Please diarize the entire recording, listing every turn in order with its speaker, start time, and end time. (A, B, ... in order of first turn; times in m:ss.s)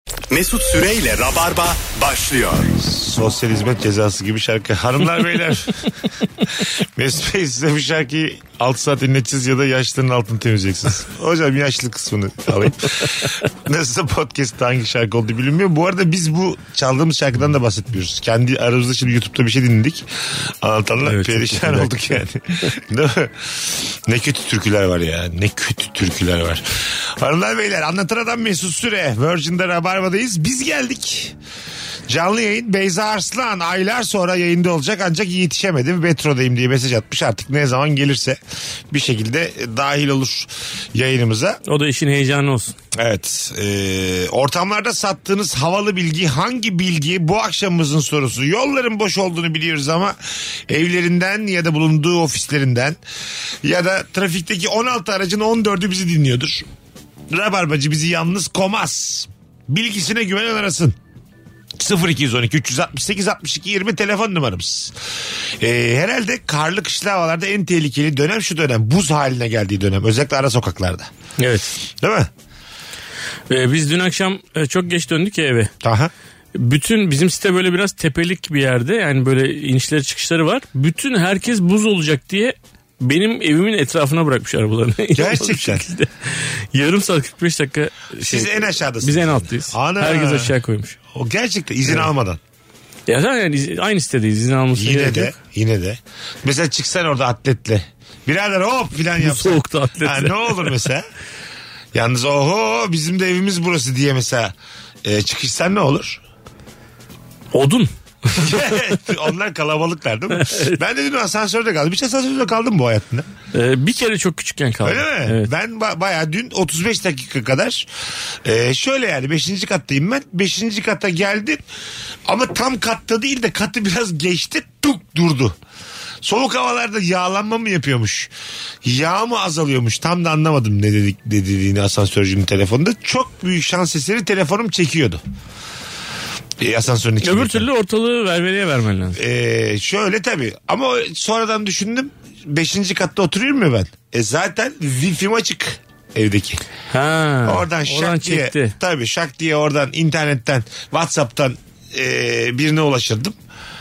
0:00.3-0:02.7 A
0:02.8-0:05.8 B
0:07.0-0:20.0 B
0:20.6-0:31.4 B
0:21.0-0:22.0 C
0:32.1-0:38.4 B
0:38.9-0:41.6 B
0:41.7-0:42.8 C
0:43.0-0:50.2 B
0:50.7-0:53.0 B
0:53.6-0:56.7 B
0:57.3-1:01.0 B
1:01.8-1:04.9 B
1:05.6-1:11.1 B
1:11.4-1:11.7 C
1:12.0-1:12.3 B
1:13.5-1:15.7 C
1:15.8-1:16.1 B
1:16.6-1:31.0 C
1:25.2-1:25.8 B
1:28.2-1:30.5 B
1:31.1-1:32.4 B
1:33.1-1:35.4 C
1:34.8-1:41.1 B
1:39.2-1:40.8 C
1:41.9-1:46.2 B
1:47.5-1:49.0 C
1:48.4-1:53.3 B
1:50.3-1:50.8 C
1:53.5-1:55.5 C
1:54.8-1:57.9 B
1:58.4-2:01.6 B
2:02.3-2:05.6 B
2:06.2-2:08.3 B
2:08.8-2:15.2 B
2:16.6-2:17.7 B
2:17.2-2:19.2 C
2:19.2-2:26.6 B
2:26.9-2:28.8 C
2:27.4-2:33.4 B